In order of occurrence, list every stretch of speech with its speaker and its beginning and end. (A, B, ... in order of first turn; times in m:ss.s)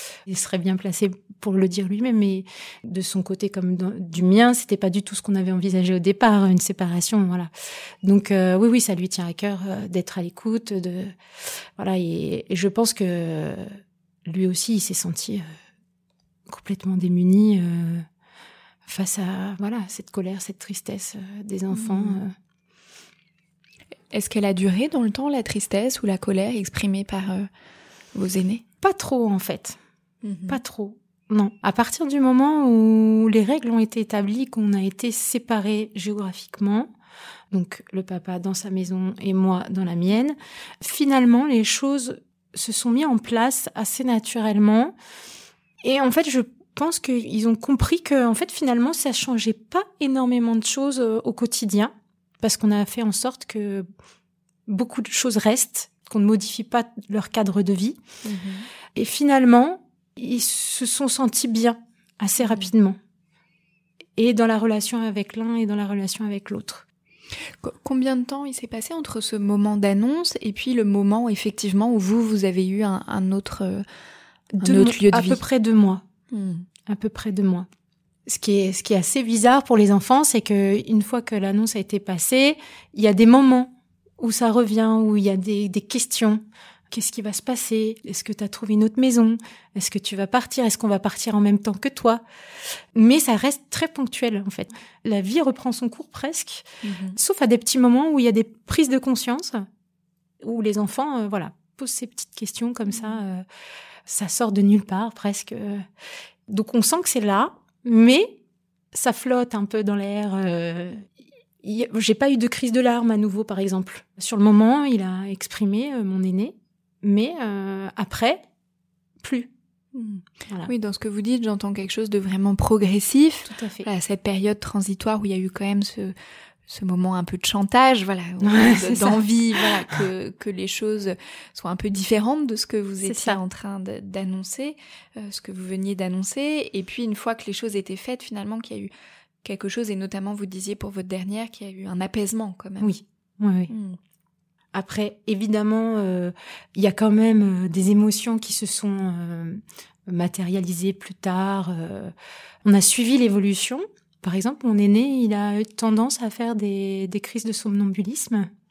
0:00.3-0:07.5 A
0:08.0-0:11.1 A
0:11.8-0:15.5 A
0:16.5-0:18.1 A
0:18.8-0:22.4 A
0:21.7-0:22.2 B
0:24.1-0:27.5 B
0:28.1-0:28.6 B
0:28.8-0:29.8 A
0:30.2-0:30.6 B
0:30.5-0:36.9 A
0:37.5-0:44.9 A
0:45.8-0:53.9 A
0:54.7-0:58.0 A
0:58.2-0:58.7 B
0:59.0-1:03.0 A
1:02.4-1:02.7 B
1:04.2-1:06.8 A
1:07.6-1:13.8 B
1:14.6-1:16.0 A
1:14.6-1:15.4 B
1:16.3-1:16.6 B
1:16.9-1:17.7 A
1:18.3-1:32.2 A
1:33.0-1:39.6 A
1:36.8-1:37.2 B
1:40.4-1:43.4 A
1:42.9-1:43.2 B
1:44.1-1:45.9 A
1:46.5-1:48.4 A
1:48.9-1:51.1 A
1:51.6-1:58.4 A
1:59.2-1:59.5 A
2:00.0-2:06.2 B
2:03.5-2:03.9 A
2:06.7-2:18.9 B
2:08.4-2:09.2 A
2:13.0-2:13.4 A
2:19.4-2:22.9 B
2:22.8-2:23.7 A
2:23.7-2:24.0 B
2:24.7-2:32.1 A
2:32.6-2:38.5 A